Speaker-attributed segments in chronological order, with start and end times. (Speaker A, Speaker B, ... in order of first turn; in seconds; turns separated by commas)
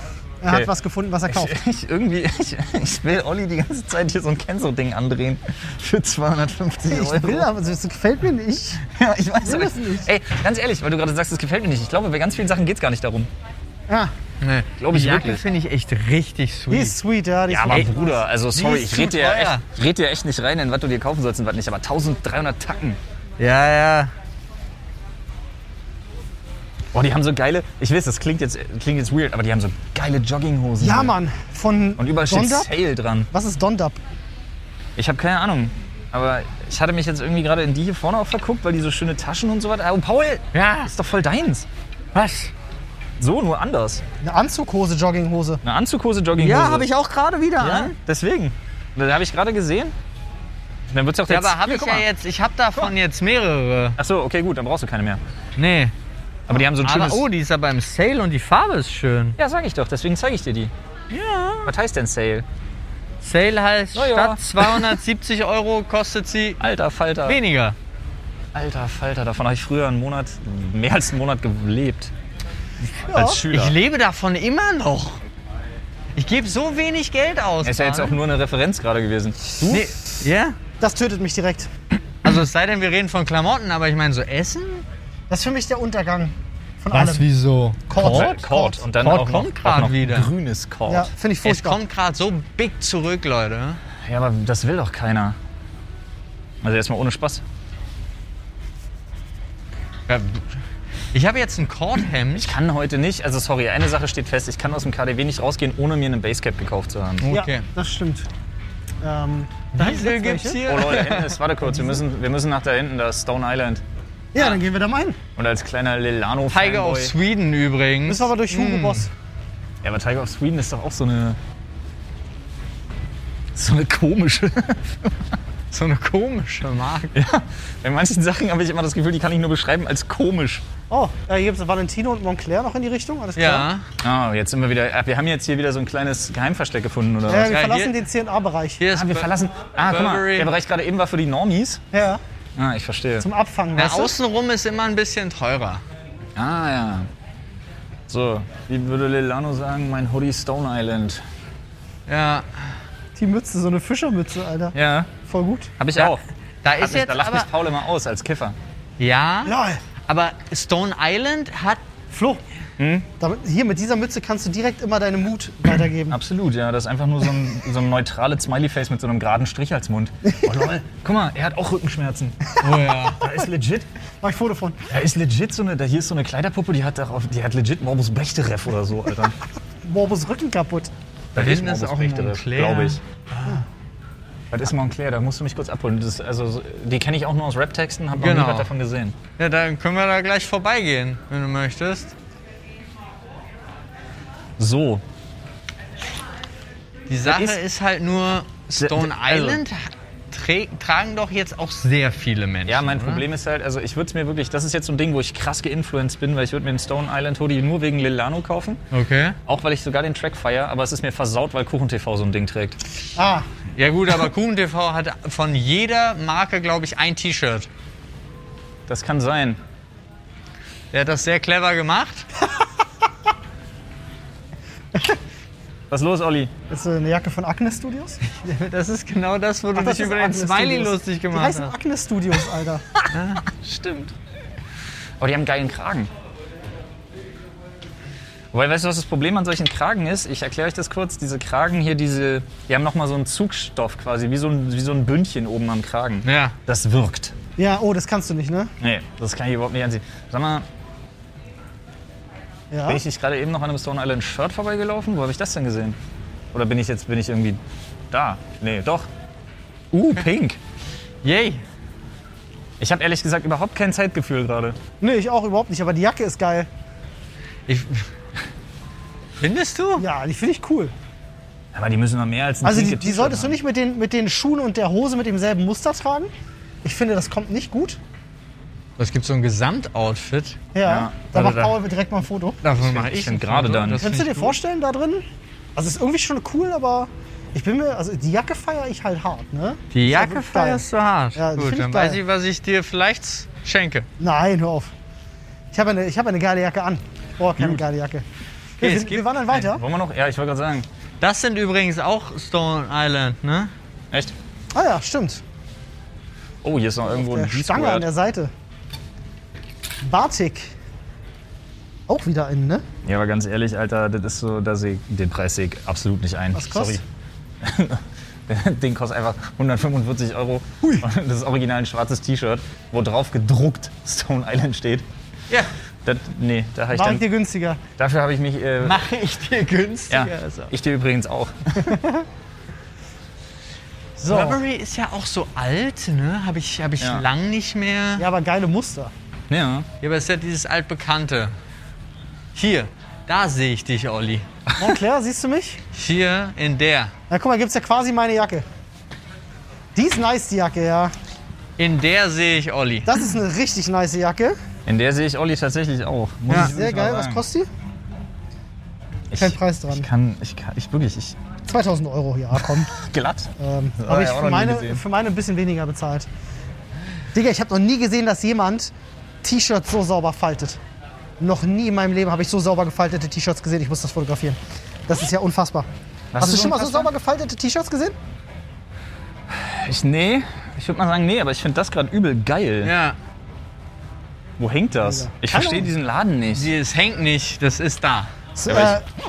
Speaker A: 0.4-1.6, Speaker B: 1.3-7.5, Speaker A: 6.9-8.8, Speaker B: 8.8-13.3, Speaker A: 9.4-10.1, Speaker C: 14.4-16.9, Speaker B: 14.8-15.4, Speaker A: 16.7-18.2, Speaker B: 17.5-23.0, Speaker C: 18.5-19.6, Speaker C: 23.4-24.1, Speaker B: 26.9-31.1, Speaker A: 30.8-32.7, Speaker B: 32.0-33.3, Speaker A: 33.3-34.0, Speaker B: 35.0-41.6, Speaker C: 40.5-40.9, Speaker C: 42.1-42.5, Speaker B: 43.2-44.0, Speaker A: 44.2-45.6, Speaker B: 45.6-46.9, Speaker C: 46.4-47.9, Speaker B: 47.6-49.9, Speaker B: 50.9-52.1, Speaker C: 51.3-54.0, Speaker B: 54.0-55.2, Speaker C: 55.6-55.9, Speaker B: 56.5-57.2, Speaker C: 56.7-59.4, Speaker B: 59.4-60.7, Speaker C: 61.1-61.7, Speaker B: 61.6-62.4, Speaker C: 63.2-66.6, Speaker B: 63.9-65.0, Speaker B: 66.6-67.4, Speaker C: 67.2-67.8, Speaker B: 68.5-72.1, Speaker A: 73.1-73.4, Speaker B: 73.1-73.8, Speaker C: 73.4-75.2, Speaker C: 76.2-78.2, Speaker B: 77.6-79.9, Speaker C: 79.7-80.6, Speaker A: 80.8-81.7, Speaker C: 82.2-84.8, Speaker A: 85.3-87.2, Speaker C: 86.9-88.3, Speaker A: 87.9-88.8, Speaker B: 88.0-91.1, Speaker C: 88.9-90.3, Speaker A: 90.9-91.8, Speaker C: 91.4-93.8, Speaker B: 94.0-95.4, Speaker B: 96.6-97.4, Speaker C: 100.1-100.5, Speaker C: 101.1-102.5, Speaker B: 102.3-107.3, Speaker C: 107.2-107.6, Speaker A: 107.3-108.3, Speaker A: 109.0-110.6, Speaker C: 109.7-111.4, Speaker B: 110.6-113.8, Speaker A: 111.7-112.0, Speaker A: 114.3-115.2, Speaker B: 115.3-117.1, Speaker C: 116.5-119.1, Speaker A: 118.1-119.1, Speaker B: 119.8-121.4, Speaker B: 123.5-125.3, Speaker C: 125.7-127.1, Speaker B: 127.1-130.6, Speaker A: 130.9-133.7, Speaker C: 133.3-133.8, Speaker B: 134.0-137.5, Speaker A: 137.3-138.8, Speaker C: 137.5-137.9, Speaker C: 138.8-139.3, Speaker B: 138.9-141.8, Speaker C: 139.8-140.5, Speaker A: 141.9-142.2, Speaker B: 142.6-143.2, Speaker A: 143.2-144.1, Speaker C: 143.8-145.8, Speaker B: 146.3-147.1, Speaker B: 148.1-151.2, Speaker C: 152.1-152.5, Speaker A: 153.2-155.7, Speaker B: 154.7-155.1, Speaker B: 155.8-156.2, Speaker C: 155.9-157.5, Speaker B: 156.8-158.6, Speaker C: 159.0-159.5, Speaker A: 159.4-159.8, Speaker C: 160.1-161.8, Speaker A: 162.1-162.4, Speaker B: 162.8-163.1, Speaker A: 163.2-166.2, Speaker B: 166.1-172.6, Speaker C: 172.6-173.2, Speaker B: 173.1-173.9, Speaker A: 174.2-174.8, Speaker B: 174.9-179.3, Speaker A: 179.8-180.9, Speaker B: 181.3-183.0, Speaker C: 181.3-183.5, Speaker B: 184.5-189.2, Speaker C: 188.2-188.7, Speaker C: 189.4-192.1, Speaker B: 194.6-195.0, Speaker C: 197.1-203.2, Speaker B: 197.2-197.6, Speaker B: 198.7-199.6, Speaker B: 202.7-208.8, Speaker C: 208.9-209.4, Speaker B: 209.4-212.8, Speaker A: 213.2-213.5, Speaker C: 213.8-217.7, Speaker B: 218.9-219.6, Speaker C: 220.9-222.3, Speaker B: 225.9-226.5, Speaker A: 226.7-228.2, Speaker C: 228.3-231.7, Speaker A: 229.7-232.9, Speaker C: 233.1-233.4, Speaker B: 233.5-234.1, Speaker B: 235.2-236.1, Speaker B: 238.5-247.3, Speaker C: 246.2-246.6, Speaker A: 247.6-248.7, Speaker B: 248.8-250.7, Speaker A: 252.7-253.0, Speaker B: 252.8-256.0, Speaker B: 256.5-257.6, Speaker B: 258.1-259.1, Speaker B: 259.9-260.6, Speaker C: 261.2-261.6, Speaker B: 262.8-264.8, Speaker A: 265.0-266.7, Speaker C: 267.7-268.1, Speaker C: 269.4-270.0, Speaker A: 270.0-270.9, Speaker B: 271.7-273.6, Speaker A: 272.6-276.3, Speaker A: 276.8-278.0, Speaker C: 279.0-280.6, Speaker A: 280.7-282.6, Speaker B: 280.8-281.8, Speaker C: 282.6-284.5, Speaker B: 282.8-284.0, Speaker A: 284.0-285.2, Speaker A: 285.8-290.8, Speaker C: 289.9-294.1, Speaker A: 291.4-292.2, Speaker A: 294.2-294.9, Speaker A: 295.7-298.2, Speaker B: 297.6-297.8, Speaker C: 298.8-299.4, Speaker A: 298.8-299.8, Speaker B: 299.5-300.9, Speaker C: 301.2-303.7, Speaker A: 304.7-305.4, Speaker B: 306.6-308.1, Speaker A: 307.1-308.5, Speaker A: 310.0-310.7, Speaker A: 312.1-312.8, Speaker B: 313.0-317.0, Speaker A: 316.5-317.0, Speaker B: 317.6-325.1, Speaker B: 326.0-327.2, Speaker A: 326.9-327.8, Speaker B: 328.0-329.0, Speaker C: 328.8-330.7, Speaker B: 330.1-332.0, Speaker A: 331.9-332.2, Speaker A: 334.2-334.6, Speaker C: 334.3-338.2, Speaker B: 337.0-337.2, Speaker A: 338.2-339.1, Speaker B: 339.5-339.9, Speaker C: 340.0-341.5, Speaker C: 342.5-344.4, Speaker B: 344.7-345.0, Speaker A: 344.8-345.8, Speaker C: 345.9-347.1, Speaker A: 347.3-348.6, Speaker A: 349.9-351.1, Speaker C: 351.8-353.2, Speaker A: 353.1-354.6, Speaker B: 354.9-357.4, Speaker A: 356.5-357.7, Speaker B: 359.3-361.4, Speaker A: 359.3-360.1, Speaker A: 361.7-362.9, Speaker B: 362.5-365.0, Speaker A: 363.6-366.3, Speaker A: 367.3-368.9, Speaker A: 369.4-370.8, Speaker A: 371.4-378.1, Speaker B: 376.3-377.1, Speaker B: 379.5-382.9, Speaker C: 382.8-383.1, Speaker B: 384.6-386.7, Speaker A: 385.0-385.9, Speaker C: 386.5-388.3, Speaker A: 388.6-389.1, Speaker B: 388.7-389.0